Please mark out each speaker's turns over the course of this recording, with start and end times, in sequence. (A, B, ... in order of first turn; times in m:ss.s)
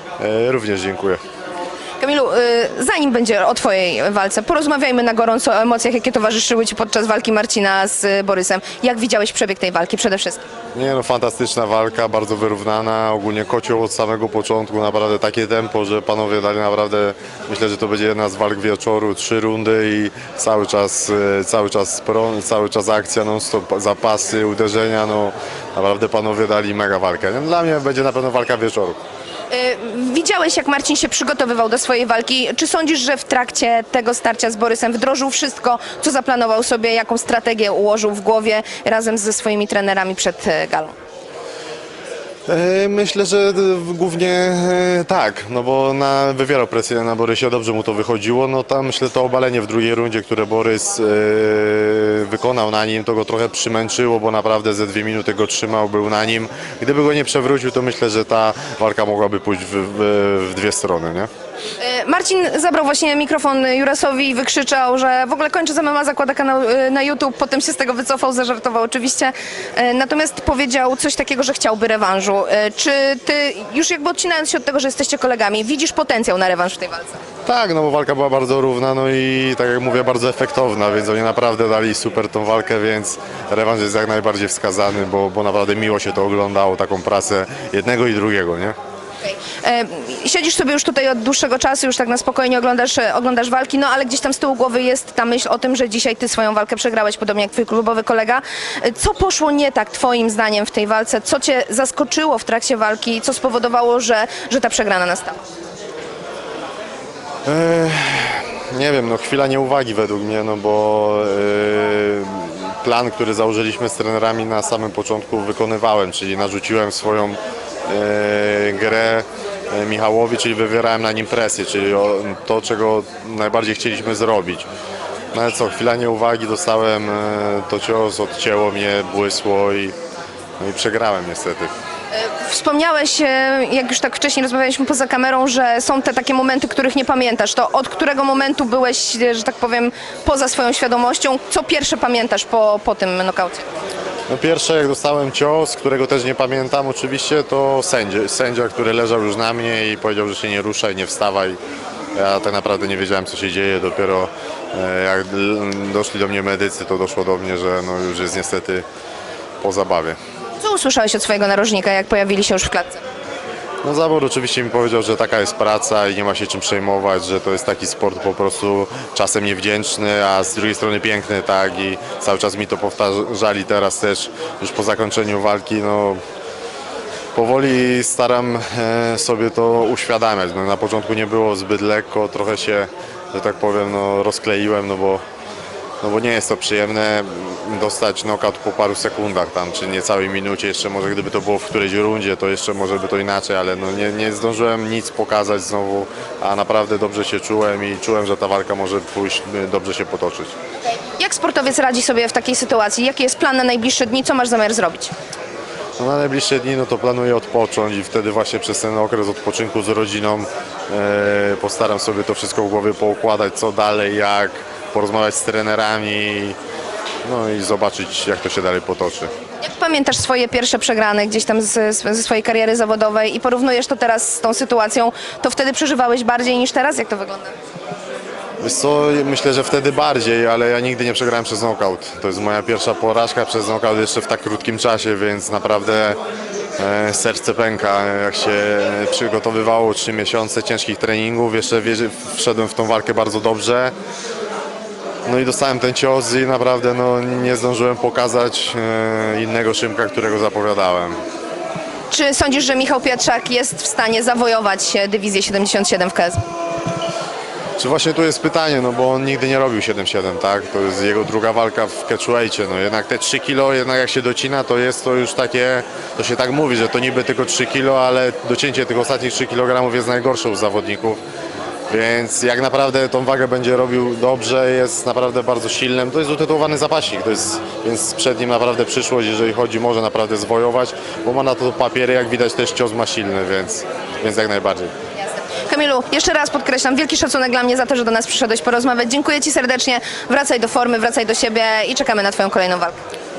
0:00.2-0:01.2 A
0:02.0-0:10.4 B
0:10.7-0:29.0 A
0:29.5-0:41.0 B
0:42.5-1:01.3 A
1:01.8-1:17.2 B
1:17.4-1:28.8 A
1:29.2-1:45.4 B
1:47.4-2:04.7 A
2:05.3-2:10.0 A
2:10.6-2:11.7 A
2:12.1-2:23.7 B
2:24.3-2:31.6 A
2:32.2-2:38.8 A
2:39.6-2:40.2 A
2:40.6-2:43.0 B
2:43.8-2:56.2 A
2:57.3-3:05.2 A
3:06.0-3:20.5 A
3:20.9-3:25.1 B
3:26.0-3:36.6 A
3:37.2-3:39.3 A
3:39.6-3:47.5 B
3:48.6-3:56.2 A
3:56.8-4:03.9 A
4:05.2-4:11.2 A
4:12.1-4:16.4 B
4:17.8-4:31.2 A
4:31.9-4:44.9 A
4:45.2-4:53.0 B